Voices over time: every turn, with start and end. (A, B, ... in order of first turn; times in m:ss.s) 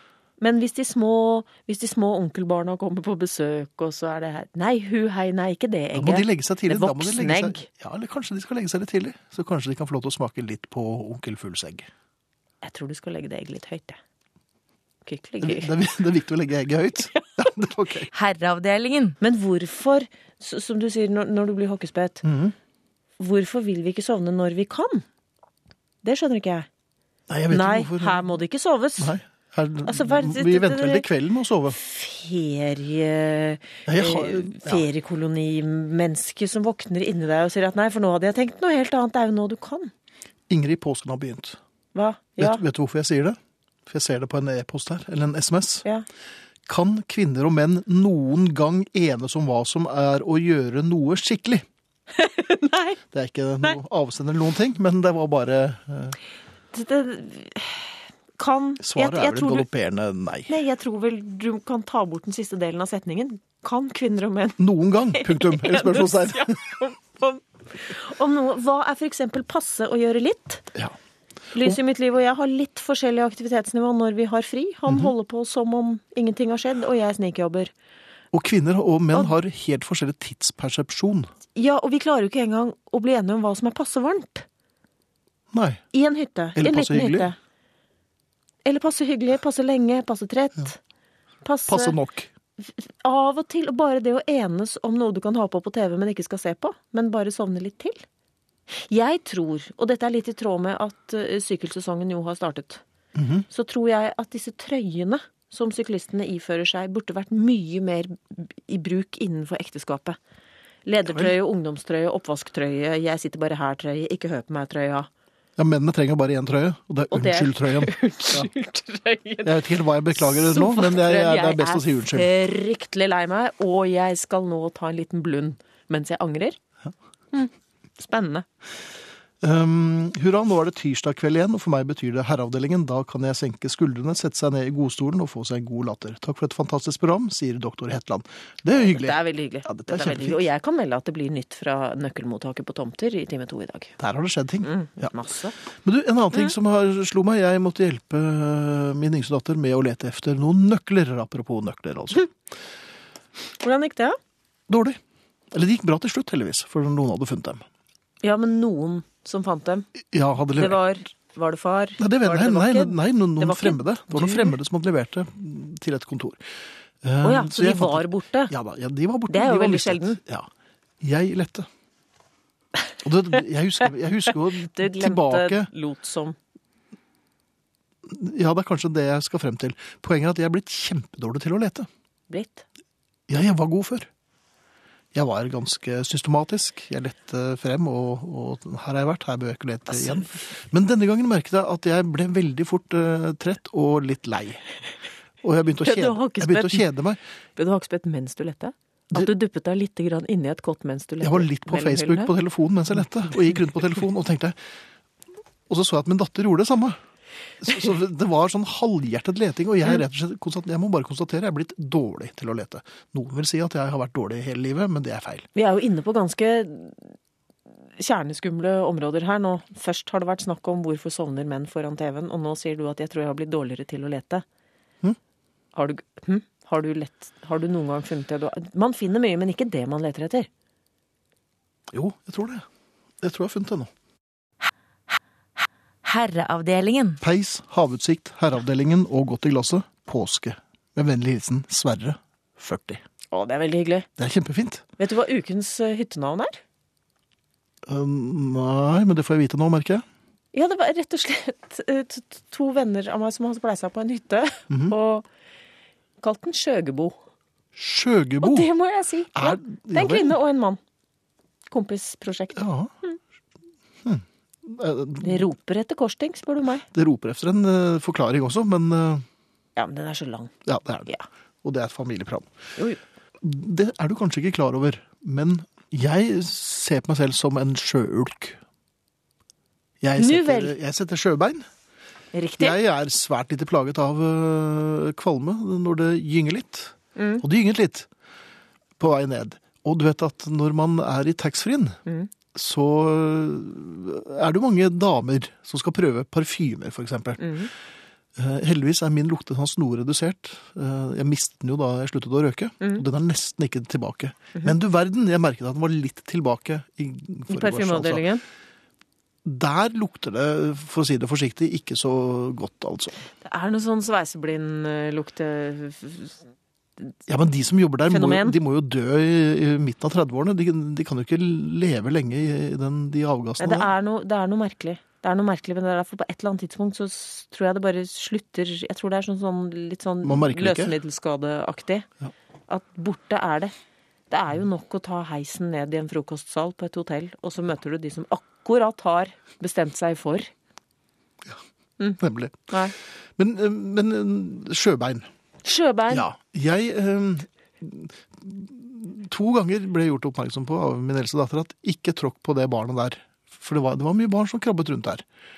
0:00.4-0:07.6 A
0:05.9-0:11.9 B
0:12.6-0:14.0 A
0:15.0-0:15.7 A
0:15.4-0:18.1 B
0:18.1-0:22.2 A
0:22.2-0:22.5 B
0:23.2-0:25.0 A
0:26.0-0:26.7 A
0:27.3-0:28.3 B
0:27.5-0:29.1 A
0:29.0-0:31.8 B
0:29.8-0:31.1 A
0:31.7-0:39.9 A
0:33.9-0:34.8 B
0:40.5-0:41.6 B
0:41.9-0:42.6 A
0:42.4-0:45.8 B
0:46.6-0:51.6 B
0:52.1-0:53.0 A
0:53.1-0:56.2 B
0:56.7-0:59.6 A
0:58.8-1:00.5 B
1:00.5-1:04.6 A
1:04.6-1:06.5 B
1:05.1-1:10.7 A
1:11.5-1:17.7 A
1:14.9-1:15.1 B
1:18.3-1:21.3 B
1:21.5-1:24.4 A
1:25.5-1:25.8 B
1:25.9-1:27.4 A
1:26.6-1:27.3 B
1:28.6-1:30.8 A
1:31.4-1:32.0 A
1:31.7-1:32.3 B
1:32.6-1:38.0 A
1:38.7-1:42.8 A
1:43.1-1:43.5 B
1:43.5-1:50.2 A
1:50.8-1:55.1 A
1:55.6-1:58.5 B
1:57.1-2:06.6 A
1:59.4-2:02.3 B
2:07.3-2:08.4 A
2:09.4-2:20.4 B
2:18.7-2:24.0 A
2:24.0-2:25.1 B
2:24.6-2:25.6 A
2:25.8-2:32.3 B
2:33.6-2:34.2 A
2:34.7-2:35.0 B
2:35.5-2:37.6 B
2:38.2-2:39.9 A
2:40.1-2:40.8 B
2:40.5-2:44.6 A
2:42.0-2:46.4 B
2:47.0-2:50.5 B
2:47.2-2:48.5 A
2:49.3-2:50.2 A
2:51.0-2:51.7 B
2:53.0-2:55.7 B
2:54.4-2:56.4 A
2:58.0-3:01.9 B
3:02.3-3:02.6 A
3:03.3-3:04.1 B
3:05.1-3:14.6 B
3:09.9-3:10.3 A
3:15.4-3:17.2 B
3:15.8-3:16.9 A
3:17.6-3:22.3 A
3:21.2-3:24.6 B
3:25.7-3:27.0 B
3:27.6-3:35.5 B
3:35.5-3:37.1 A
3:38.0-3:44.4 A
3:45.7-3:50.5 A
3:51.9-3:52.6 B
3:53.2-3:53.9 B
3:56.0-3:57.2 A
3:57.2-4:03.0 B
4:03.3-4:04.1 A
4:04.2-4:04.8 B
4:05.0-4:06.6 A
4:07.8-4:10.0 B
4:10.5-4:15.2 A
4:14.7-4:14.9 B
4:16.2-4:17.2 A
4:17.7-4:18.7 B
4:18.4-4:20.8 A
4:19.3-4:20.4 B
4:21.7-4:23.2 A
4:22.5-4:22.9 B
4:24.0-4:25.5 B
4:25.2-4:26.8 A
4:26.9-4:29.2 B
4:29.8-4:30.5 A
4:30.6-4:31.1 B
4:31.6-4:32.5 B
4:33.4-4:38.6 B
4:40.0-4:41.6 B
4:40.2-4:40.7 A
4:42.3-4:42.8 A
4:42.6-4:48.1 B
4:47.2-4:47.4 A
4:49.0-4:52.0 B
4:52.5-4:57.6 B
4:57.4-4:57.7 A
4:58.4-5:08.2 B
5:07.5-5:08.4 A
5:09.4-5:13.2 B
5:13.4-5:16.4 A
5:17.3-5:23.9 B
5:18.1-5:18.6 A
5:23.6-5:32.1 A
5:30.2-5:30.9 B
5:32.7-5:33.7 A
5:34.3-5:40.5 A
5:42.2-5:42.8 B
5:43.4-5:45.3 B
5:45.6-5:46.3 A
5:46.1-5:55.2 B